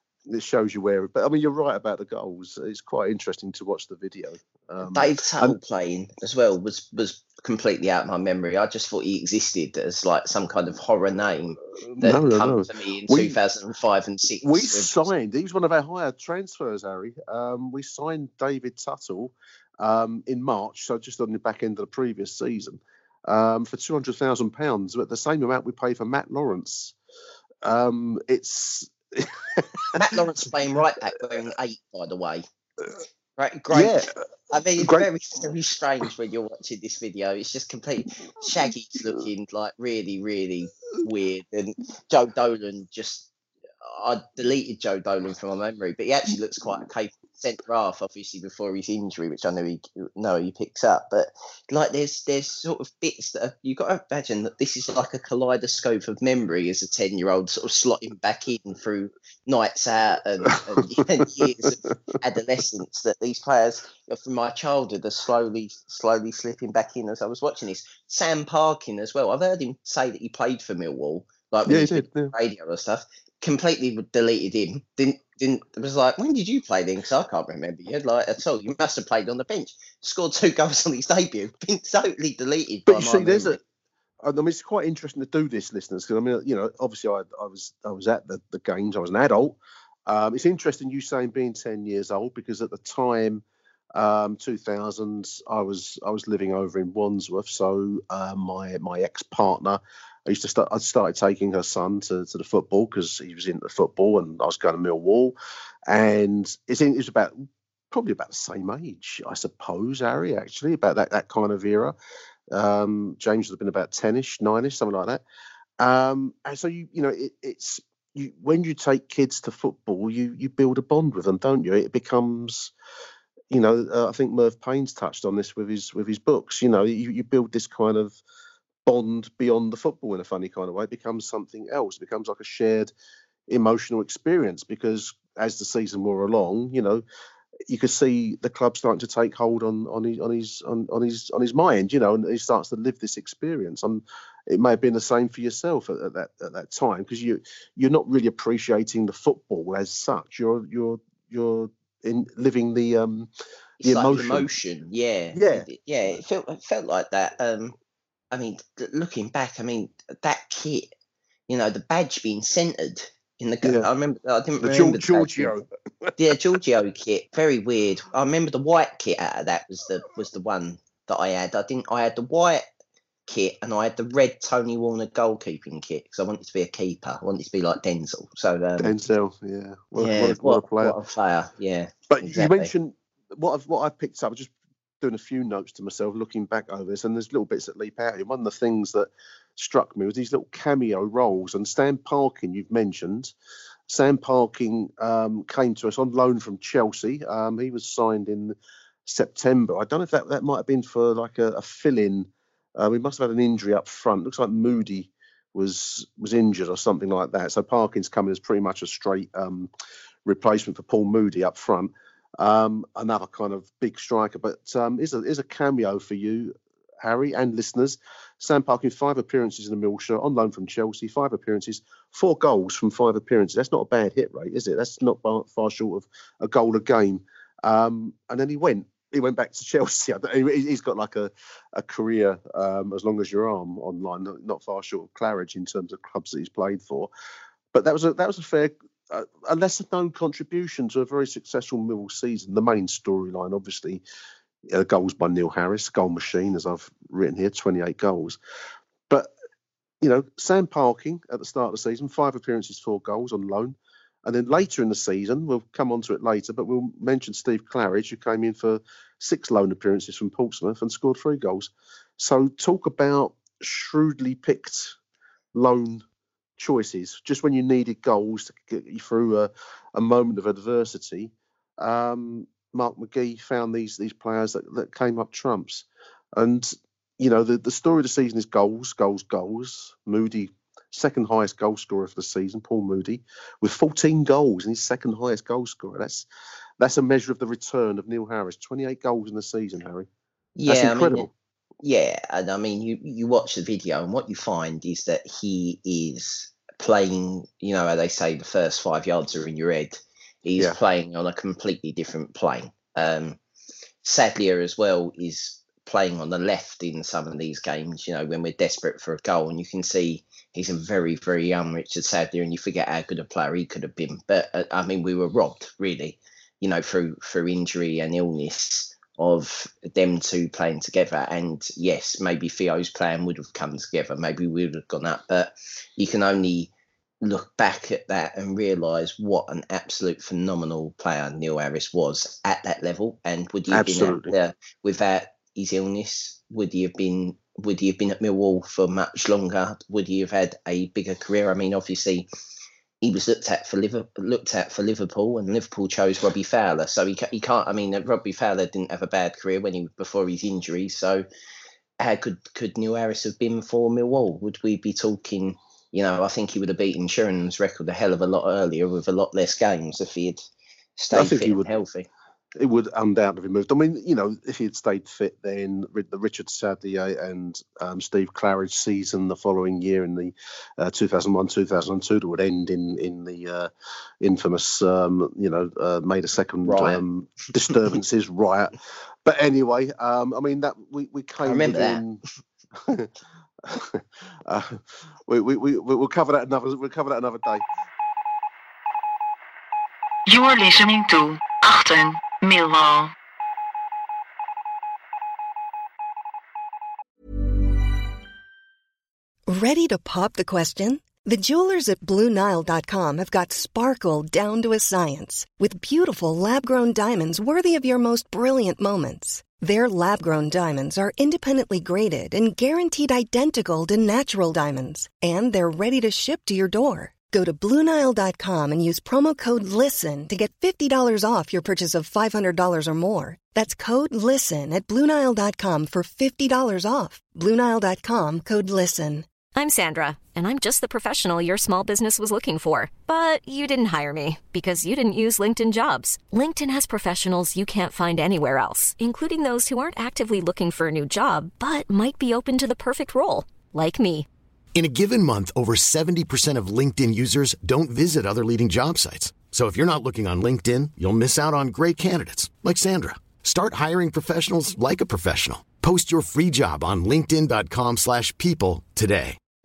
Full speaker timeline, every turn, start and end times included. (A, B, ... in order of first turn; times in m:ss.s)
0:00.3-0:05.6 A
0:04.8-0:15.1 B
0:11.9-0:13.4 A
0:14.4-0:27.0 A
0:27.6-0:30.0 A
0:30.0-0:32.4 B
0:33.4-0:43.3 B
0:33.7-0:34.1 A
0:34.8-0:35.1 A
0:43.8-1:23.6 B
1:01.0-1:01.5 A
1:11.7-1:12.3 A
1:22.9-1:23.6 A
1:24.2-1:33.4 A
1:34.0-1:45.4 A
1:45.9-1:52.0 A
1:52.5-1:55.2 A
1:55.8-2:02.7 A
2:03.5-2:08.2 A
2:08.9-2:12.9 A
2:13.5-2:17.0 A
2:17.7-2:33.3 A
2:33.8-2:37.8 B
2:33.8-2:34.5 A
2:35.3-2:36.2 A
2:38.3-2:40.9 B
2:41.5-2:45.5 B
2:44.6-2:46.3 A
2:46.2-2:52.7 B
2:53.3-2:59.0 B
2:58.8-3:01.0 A
3:00.0-3:02.7 B
3:02.1-3:13.3 A
3:13.9-3:29.7 A
3:30.3-3:57.1 A
3:57.7-4:04.0 A
4:04.7-4:08.4 A
4:10.0-4:25.0 A
4:25.5-4:26.0 A
4:26.6-4:46.3 A
4:46.8-4:50.1 A
4:50.6-4:51.3 B
4:50.7-4:51.3 A
4:51.8-5:03.4 B
5:04.0-5:26.7 B
5:27.2-5:42.3 B
5:33.7-5:34.3 A
5:43.0-5:51.3 B
5:52.0-6:00.4 B
6:01.0-6:02.1 B
6:01.1-6:01.7 A
6:02.6-6:13.7 A
6:14.2-6:18.7 A
6:16.6-6:17.0 B
6:19.2-6:22.2 A
6:21.4-6:22.0 B
6:22.8-6:23.1 A
6:23.7-6:27.6 A
6:30.3-6:33.1 C
6:39.5-7:09.3 D
7:09.6-7:24.3 E
7:24.8-7:39.4 F